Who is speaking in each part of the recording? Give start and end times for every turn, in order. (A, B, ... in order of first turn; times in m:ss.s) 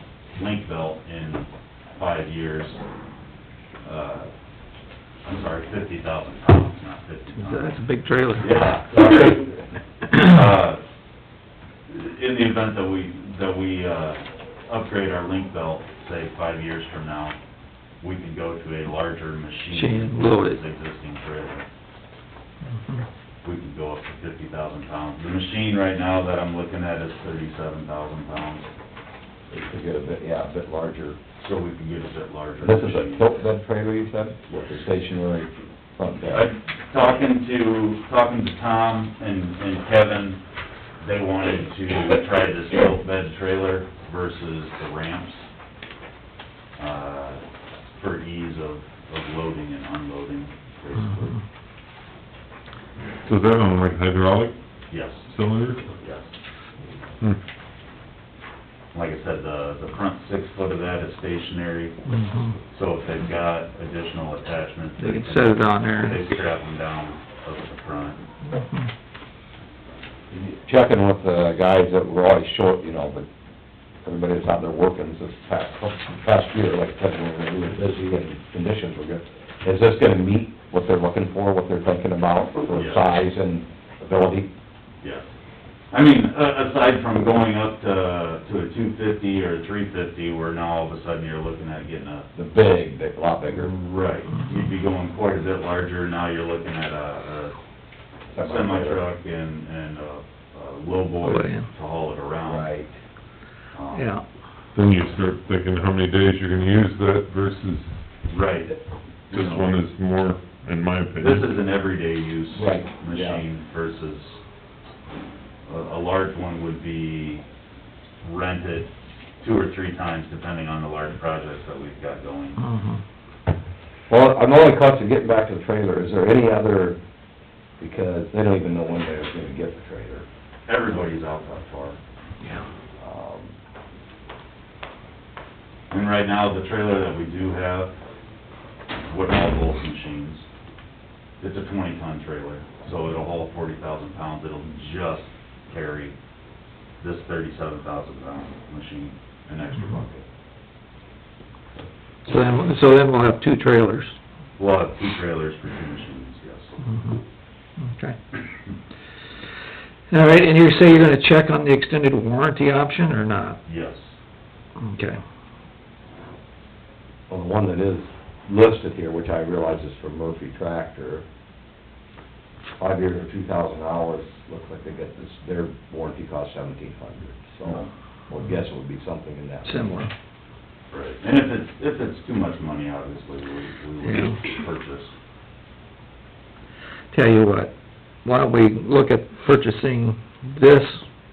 0:00.4-0:02.8 A
0:03.8-0:04.3 A
0:05.2-0:07.8 A
0:07.4-0:08.7 B
0:08.4-0:10.8 A
0:11.9-0:17.4 A
0:18.0-0:21.7 A
0:19.7-0:20.6 B
0:22.8-0:23.0 B
0:23.4-0:28.7 A
0:29.5-0:31.2 C
0:31.4-0:33.2 A
0:32.6-0:36.5 C
0:34.5-0:34.7 A
0:36.3-0:40.4 A
0:41.0-0:45.4 A
0:46.8-0:47.4 A
0:48.0-0:51.4 A
0:53.2-0:54.6 D
0:54.9-0:55.3 A
0:55.3-0:55.8 D
0:56.0-0:56.3 A
0:58.9-1:02.0 A
1:02.1-1:02.6 B
1:02.7-1:08.2 A
1:05.0-1:06.2 B
1:08.5-1:08.9 B
1:10.3-1:13.3 C
1:14.0-1:24.5 C
1:22.7-1:23.1 A
1:25.0-1:25.3 A
1:25.9-1:32.3 A
1:32.4-1:33.8 C
1:33.5-1:37.6 A
1:38.3-1:39.1 C
1:38.4-1:42.7 A
1:41.2-1:41.7 B
1:42.5-1:42.9 C
1:43.7-1:44.1 A
1:43.9-1:44.2 B
1:44.7-1:48.0 D
1:48.3-1:49.7 A
1:49.3-1:51.5 D
1:51.2-1:54.4 A
1:52.6-1:53.4 C
1:55.7-1:57.4 A
1:58.2-2:02.6 A
2:02.6-2:03.0 B
2:04.1-2:07.0 C
2:07.8-2:10.3 C
2:10.7-2:12.0 A
2:13.0-2:13.6 C
2:15.9-2:17.9 A
2:19.1-2:20.5 A
2:21.4-2:26.2 A
2:27.0-2:30.2 A
2:32.3-2:34.2 B
2:34.6-2:36.7 A
2:36.8-2:37.2 B
2:37.8-2:38.2 B
2:40.1-2:43.6 B
2:43.7-2:44.2 A
2:44.8-2:45.2 B
2:47.3-2:51.2 C
2:52.8-3:00.0 C
2:59.7-3:00.1 B
3:00.9-3:05.1 A
3:04.0-3:04.4 B
3:07.1-3:07.7 B
3:08.2-3:11.0 B